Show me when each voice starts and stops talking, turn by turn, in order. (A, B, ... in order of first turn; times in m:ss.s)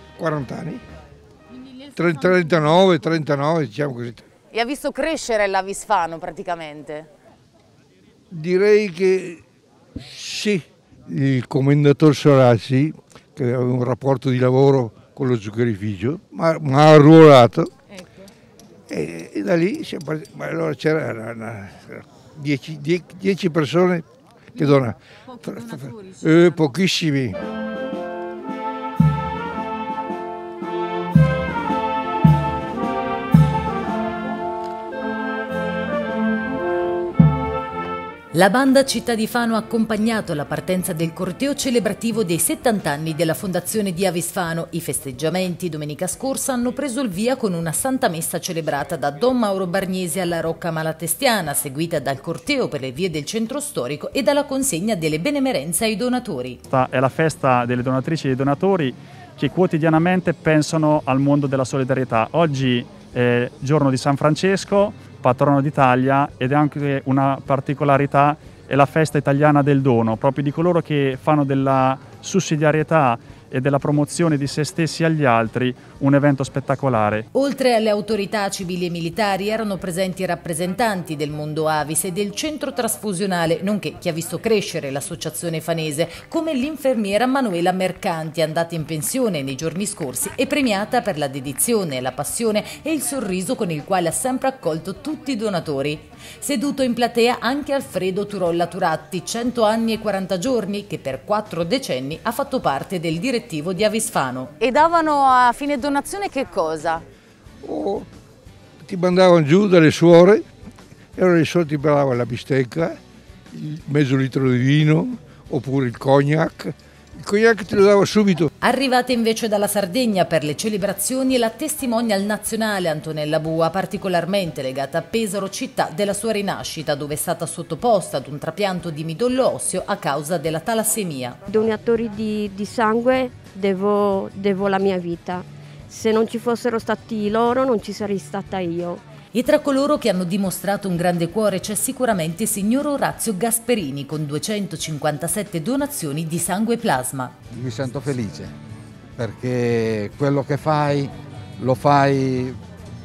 0:00.2-0:00.8 A
0:01.9-0:04.2 A
0:04.5-0:07.1 B
0:08.3-0:09.4 A
0:10.0-0:17.7 A
0:18.9-0:27.4 A
0:38.3-0:56.6 C
0:56.7-1:17.3 D
1:17.3-1:44.5 C
1:44.6-1:47.0 B
1:47.6-1:48.1 A
1:48.8-1:50.4 A
1:51.2-1:53.0 A
1:53.5-1:58.5 A
1:58.6-2:11.4 C
2:11.5-2:19.0 E
2:19.3-2:27.4 C
2:27.5-2:28.5 F
2:29.2-2:32.6 F